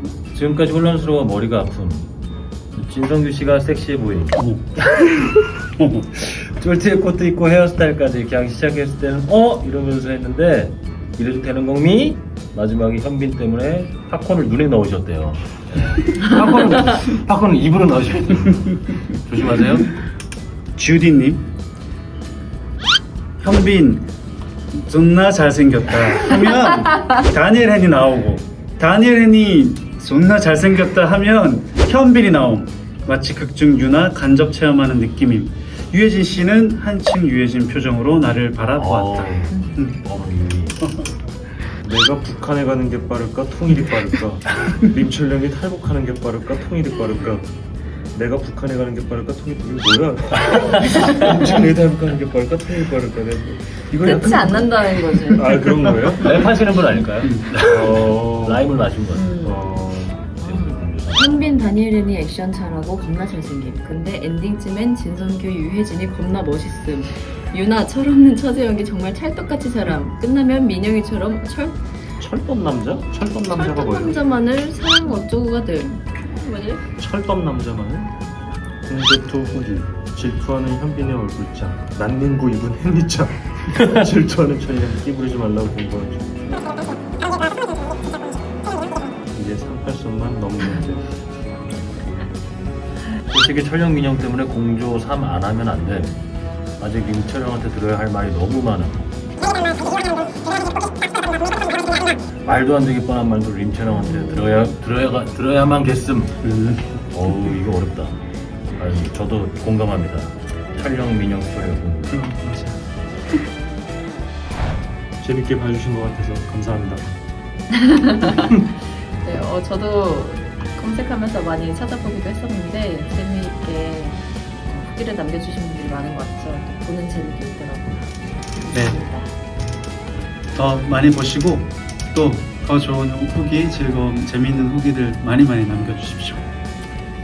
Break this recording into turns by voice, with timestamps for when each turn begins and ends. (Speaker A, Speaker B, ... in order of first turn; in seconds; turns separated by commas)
Speaker A: 0.3-2.1, Speaker A: 2.8-5.5, Speaker B: 4.4-4.6, Speaker B: 5.8-6.1, Speaker A: 6.2-19.9, Speaker B: 20.8-21.5, Speaker B: 23.4-24.1, Speaker B: 24.8-40.0, Speaker A: 38.8-40.8, Speaker C: 41.8-47.5, Speaker C: 48.1-56.4, Speaker A: 50.4-51.3, Speaker D: 54.0-55.5, Speaker A: 56.2-59.3, Speaker C: 57.6-58.8, Speaker D: 59.1-59.7, Speaker C: 59.4-60.3, Speaker D: 60.4-71.8, Speaker A: 60.4-61.5, Speaker C: 72.2-74.2, Speaker D: 73.5-76.8, Speaker C: 77.0-78.1, Speaker C: 78.8-86.9, Speaker C: 89.3-92.5, Speaker A: 93.3-96.2, Speaker A: 96.8-99.1, Speaker A: 102.4-106.4, Speaker B: 106.4-107.0, Speaker A: 107.1-108.2, Speaker A: 108.7-112.2, Speaker B: 112.1-112.8, Speaker C: 115.2-117.2, Speaker D: 117.7-129.3, Speaker B: 130.6-136.5